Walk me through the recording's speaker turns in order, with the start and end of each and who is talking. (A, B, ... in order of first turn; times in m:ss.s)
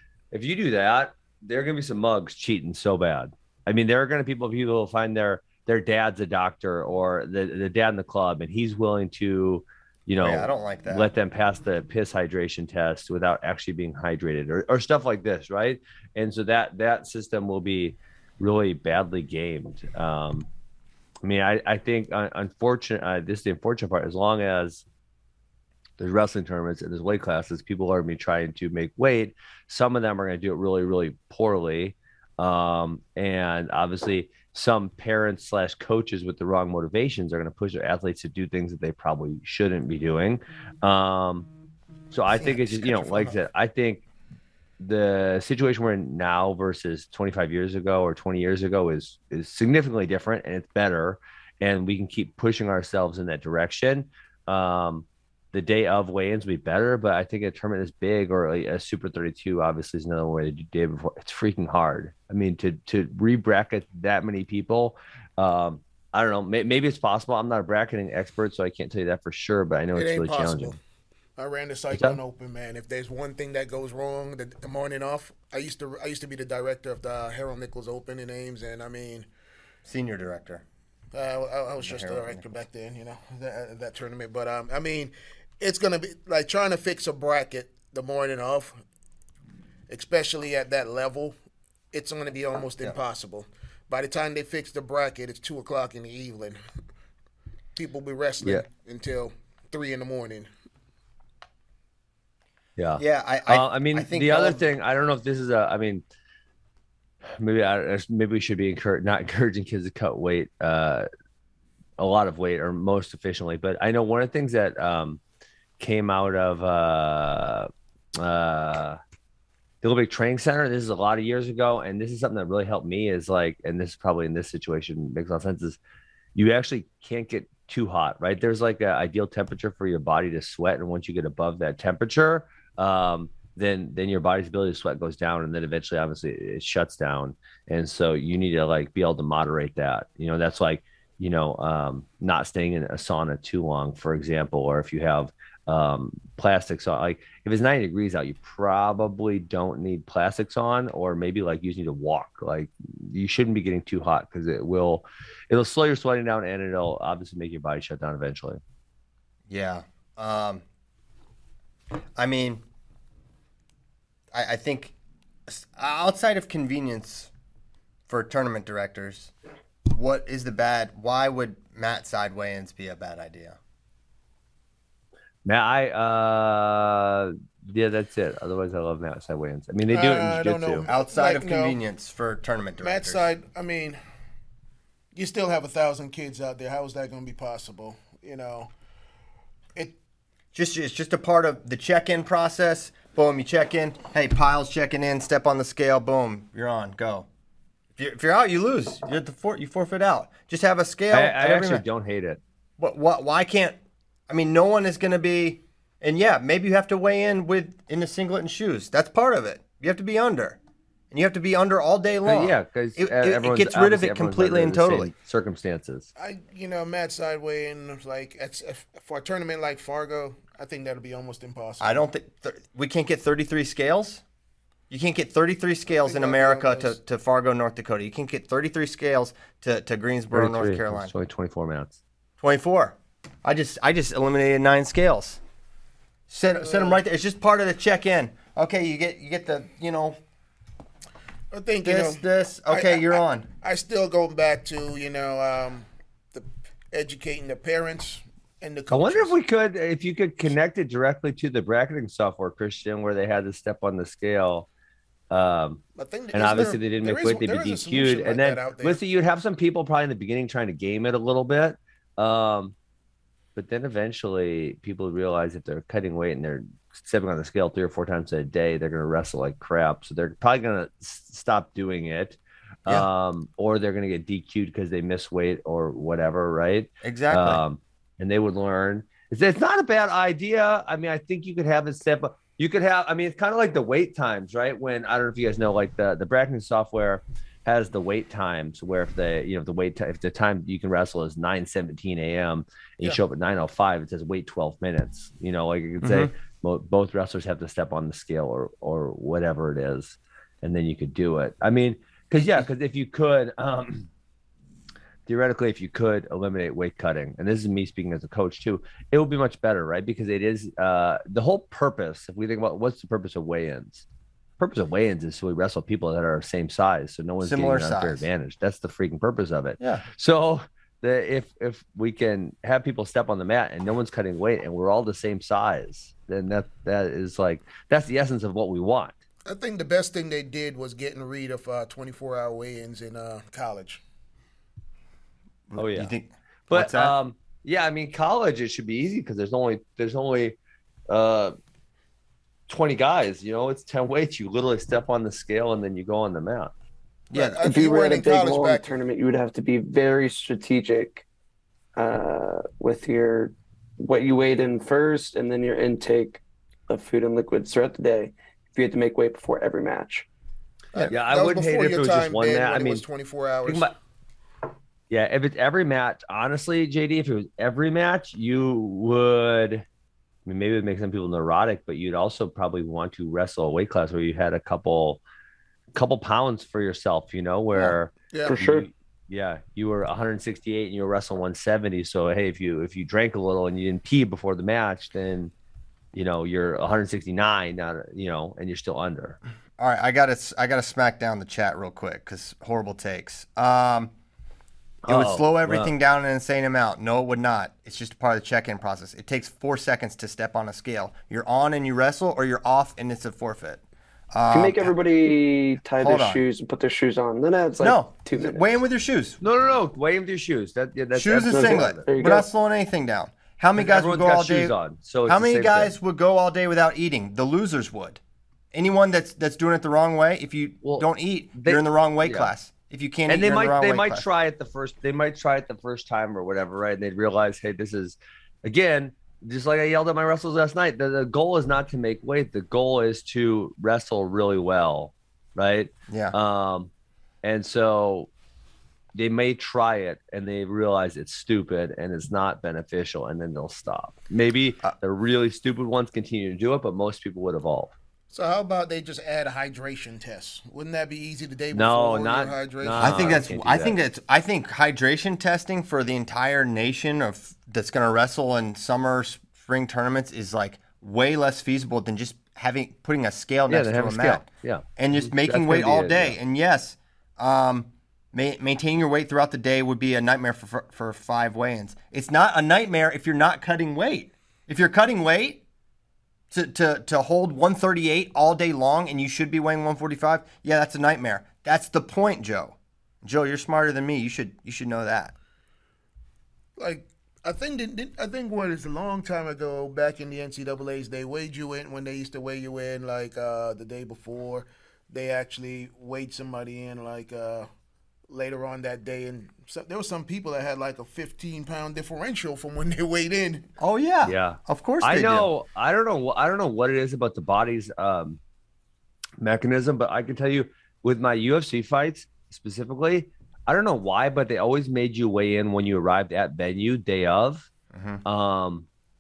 0:00.3-0:20.5 A
0:10.2-0:11.1 B
0:21.2-0:24.8 A
0:26.0-0:41.5 A
0:42.1-0:44.0 A
0:42.3-0:43.4 B
0:44.8-1:10.8 A
1:10.0-1:10.8 C
1:11.4-1:19.3 C
1:11.9-1:12.2 A
1:19.8-1:20.6 B
1:21.1-1:28.8 C
1:21.8-1:22.4 B
1:29.9-1:31.4 C
1:31.9-1:36.6 C
1:37.8-1:40.5 C
1:42.8-1:46.0 A
1:43.0-1:44.7 B
1:47.4-1:51.1 A
1:52.0-1:55.2 A
1:55.8-1:59.0 A
1:59.8-2:05.8 A
2:06.4-2:38.6 A
2:39.5-2:40.6 B
2:42.2-2:42.6 B
2:44.3-2:45.0 B
2:45.5-2:47.3 B
2:48.1-2:49.3 B
2:49.9-2:53.6 B
2:55.4-3:00.9 A
2:59.9-3:01.8 C
3:00.9-3:03.3 B
3:02.8-3:04.0 C
3:05.2-3:08.7 C
3:10.5-3:17.3 B
3:18.0-3:21.8 B
3:21.1-3:22.4 A
3:22.8-3:23.8 B
3:24.3-3:30.6 B
3:31.1-3:35.1 B
3:32.3-3:36.1 A
3:36.2-3:42.0 C
3:41.8-3:44.2 B
3:44.9-3:51.1 B
3:45.9-3:47.0 C
3:50.3-3:52.0 A
3:52.4-3:55.4 B
3:56.3-4:00.2 B
3:56.5-3:57.0 C
4:01.5-4:09.4 C
4:01.8-4:03.5 B
4:08.9-4:14.7 A
4:15.3-4:15.8 A
4:16.0-4:19.0 C
4:16.3-4:22.7 A
4:23.6-5:04.1 A
4:37.0-4:37.6 B
4:56.0-4:56.3 B
5:05.3-5:14.1 A
5:14.6-5:29.2 A
5:17.4-5:18.3 B
5:19.8-5:20.0 B
5:29.5-5:34.0 C
5:35.7-5:37.2 B
5:35.8-5:36.1 A
5:36.7-5:40.6 A
5:41.1-5:41.6 A
5:42.7-5:46.7 A
5:47.3-5:47.7 B
5:47.3-5:49.0 C
5:47.6-5:51.2 D
5:52.0-6:00.3 D
6:00.9-6:03.9 C
6:01.1-6:03.0 A
6:03.6-6:04.0 A
6:05.1-6:09.8 A
6:10.5-6:15.2 A
6:16.0-6:25.5 A
6:17.8-6:18.6 C
6:18.5-6:18.9 D
6:26.1-6:29.4 A
6:29.8-6:34.1 B
6:35.0-6:35.9 A
6:35.1-6:44.9 B
6:44.5-6:48.6 D
6:46.0-6:46.4 B
6:47.8-6:49.4 B
6:49.4-6:52.0 A
6:51.2-6:54.7 B
6:51.5-6:52.5 D
6:53.8-6:55.9 A
6:55.3-6:58.2 B
6:58.7-7:04.2 B
7:00.8-7:02.5 A
7:03.3-7:16.9 A
7:16.1-7:16.4 B
7:17.4-7:18.3 A
7:19.1-7:27.9 A
7:28.3-7:33.4 C
7:31.7-7:34.0 A
7:33.0-7:44.4 B
7:43.7-7:46.4 A
7:45.0-7:55.6 B
7:56.5-8:05.3 B
8:06.8-8:17.7 C
8:18.3-8:23.7 C
8:23.8-8:25.5 B
8:24.2-8:28.4 A
8:29.4-8:37.7 A
8:37.9-8:38.2 B
8:38.2-8:38.9 A